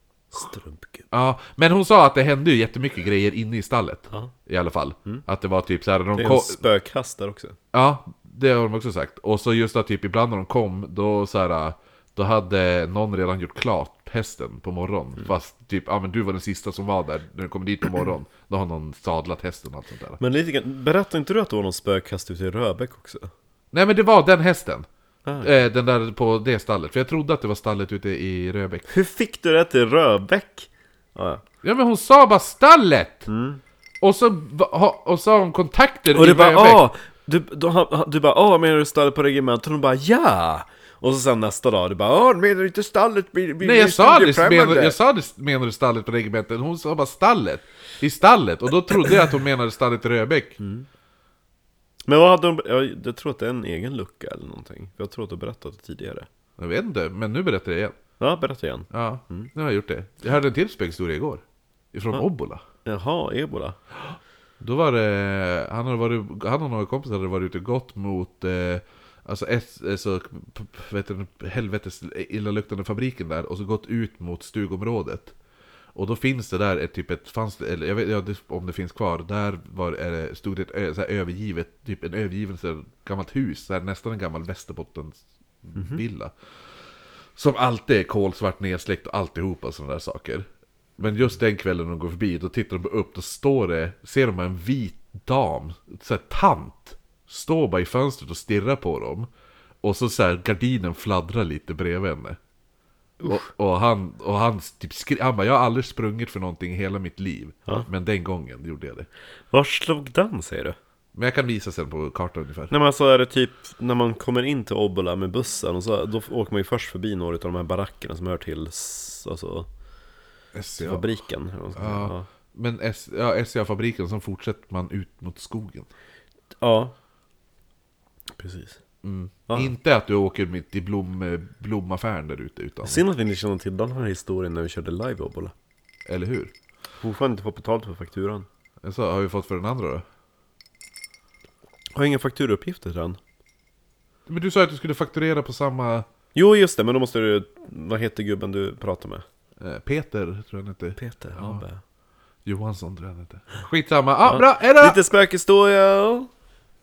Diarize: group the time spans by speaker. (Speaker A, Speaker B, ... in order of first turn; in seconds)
Speaker A: 0.3-1.1, 6.2-7.5, 20.2-23.3, 25.2-25.5, 28.9-31.4, 33.3-33.6, 36.1-45.0, 50.6-50.9, 52.0-56.3, 58.2-59.5, 62.8-63.8, 85.8-86.0, 109.5-110.8, 112.7-119.7, 120.8-122.2, 126.6-126.9, 128.4-128.8, 129.5-129.7, 132.8-135.5, 137.0-138.5, 141.9-143.2, 146.3-149.2, 151.0-151.8, 154.2-156.3
Speaker B: 1.1-6.6, 7.7-20.2, 23.7-24.9, 25.4-28.8, 31.6-33.3, 34.0-36.9, 43.6-50.6, 56.6-57.9, 58.9-62.6, 64.1-75.3, 75.9-86.3, 87.3-90.4, 91.0-99.3, 99.8-102.4, 103.2-109.1, 111.2-112.7, 120.5-121.1, 121.8-125.9, 129.0-133.0, 136.1-136.5, 138.8-140.0, 144.3-146.1, 149.6-151.6, 152.4-155.0